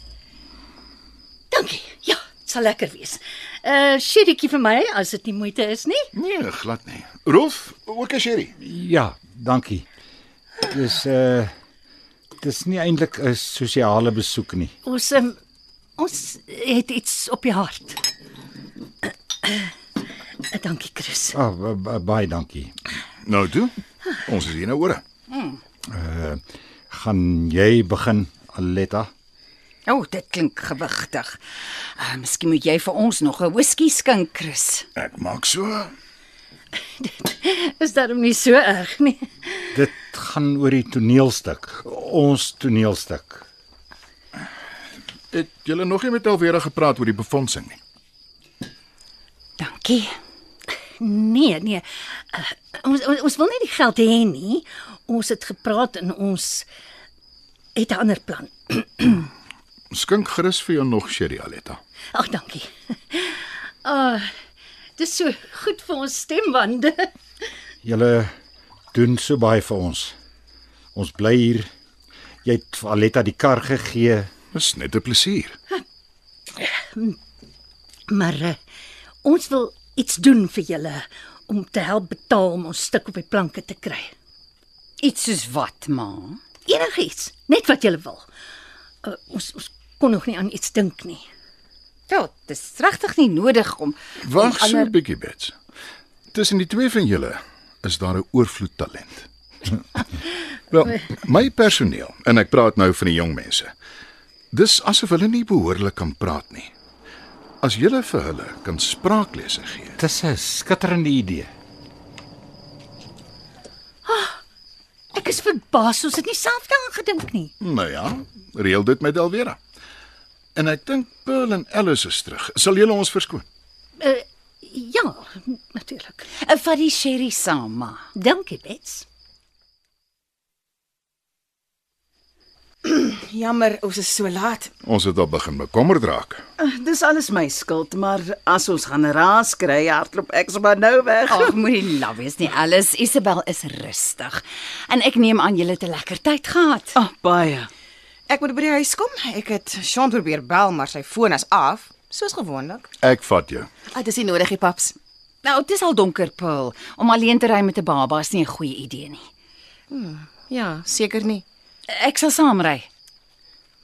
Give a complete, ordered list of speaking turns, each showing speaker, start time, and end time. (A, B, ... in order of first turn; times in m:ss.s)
0:01.5-0:06.1 A
0:06.1-0:08.5 B
0:08.6-0:09.8 C
0:10.7-0:11.5 C
0:12.4-0:14.7 C
0:14.8-0:15.4 A
0:16.0-0:18.0 A
0:19.4-0:19.7 A
0:20.4-0:21.4 A
0:21.3-0:22.7 C
0:23.2-0:25.0 B
0:25.3-0:25.6 D
0:25.9-0:29.1 C
0:29.8-0:31.4 D
0:32.0-0:34.9 D
0:35.0-0:35.9 B
0:37.0-0:39.7 A
0:39.7-0:43.4 C
0:45.3-0:47.8 B
0:49.6-0:50.1 D
0:51.0-0:56.6 A
0:57.7-0:59.3 A
0:59.9-1:01.8 B
1:02.1-1:04.3 A
1:05.0-1:07.1 A
1:07.8-1:08.3 C
1:08.9-1:10.1 C
1:10.9-1:11.7 C
1:12.4-1:14.3 C
1:14.5-1:15.6 B
1:16.6-1:17.2 A
1:18.1-1:18.6 A
1:19.2-1:24.1 A
1:25.0-1:26.4 D
1:26.6-1:28.2 A
1:29.0-1:31.2 A
1:32.1-1:34.9 D
1:34.2-1:35.6 B
1:36.3-1:39.3 B
1:40.7-1:43.7 B
1:44.5-1:46.7 B
1:47.6-1:50.0 B
1:50.0-1:51.5 C
1:54.0-1:54.4 A
1:55.1-1:57.5 A
1:57.6-1:59.6 B
2:00.6-2:03.4 B
2:04.0-2:06.3 A
2:06.4-2:08.0 D
2:08.2-2:09.0 A
2:12.8-2:14.7 E
2:14.8-2:16.4 B
2:16.6-2:21.6 F
2:21.3-2:27.0 D
2:26.9-2:27.7 F
2:28.3-2:32.9 E
2:33.0-2:33.7 B
2:33.9-2:35.0 E
2:35.4-2:39.3 D
2:39.9-2:41.4 E
2:41.9-2:42.9 D